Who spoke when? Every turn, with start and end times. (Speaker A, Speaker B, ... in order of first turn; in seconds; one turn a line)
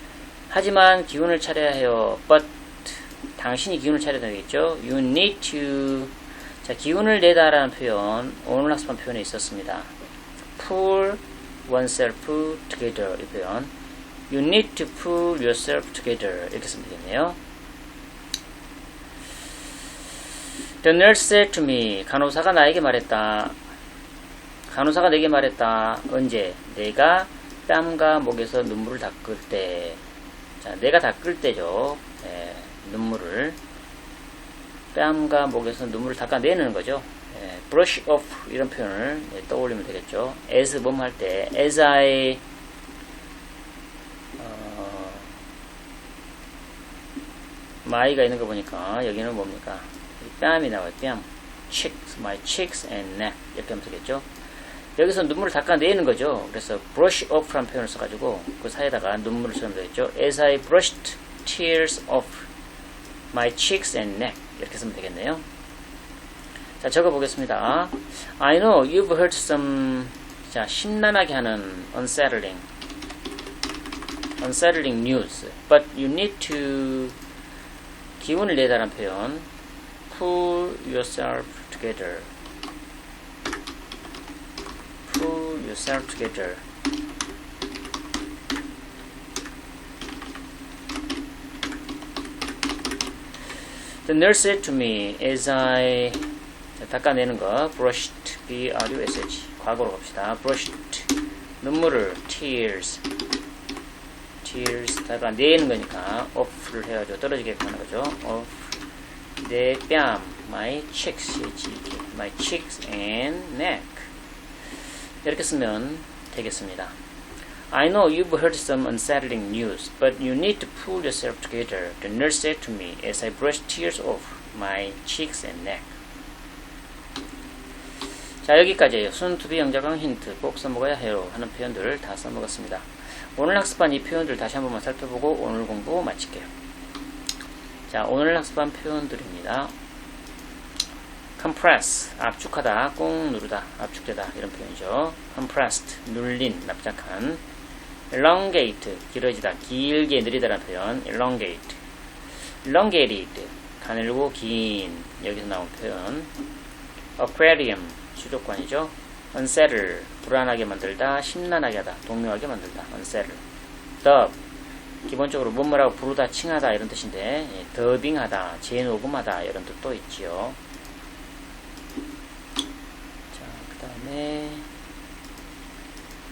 Speaker A: 0.5-9.9
Speaker A: 10.6-13.7
Speaker A: 14.3-17.4
Speaker A: 20.8-23.6
Speaker A: 24.7-30.0
Speaker A: 30.6-33.6
Speaker A: 34.9-42.4
Speaker A: 44.4-45.3
Speaker A: 47.8-54.2
Speaker A: 55.0-62.5
Speaker A: 63.3-65.4
Speaker A: 66.8-72.6
Speaker A: 74.4-77.2
Speaker A: 78.2-79.5
Speaker A: 80.1-82.3
Speaker A: 85.0-86.6
Speaker A: 94.0-96.2
Speaker A: 96.8-101.1
Speaker A: 101.6-103.0
Speaker A: 104.4-108.7
Speaker A: 109.4-114.1
Speaker A: 115.2-116.9
Speaker A: 117.7-125.9
Speaker A: 128.4-136.5
Speaker A: 137.9-139.7
Speaker A: 141.4-147.4
Speaker A: 148.1-151.8
Speaker A: 152.6-156.3
Speaker A: 157.2-163.4
Speaker A: 164.0-164.3
Speaker A: 165.0-170.6
Speaker A: 173.3-174.7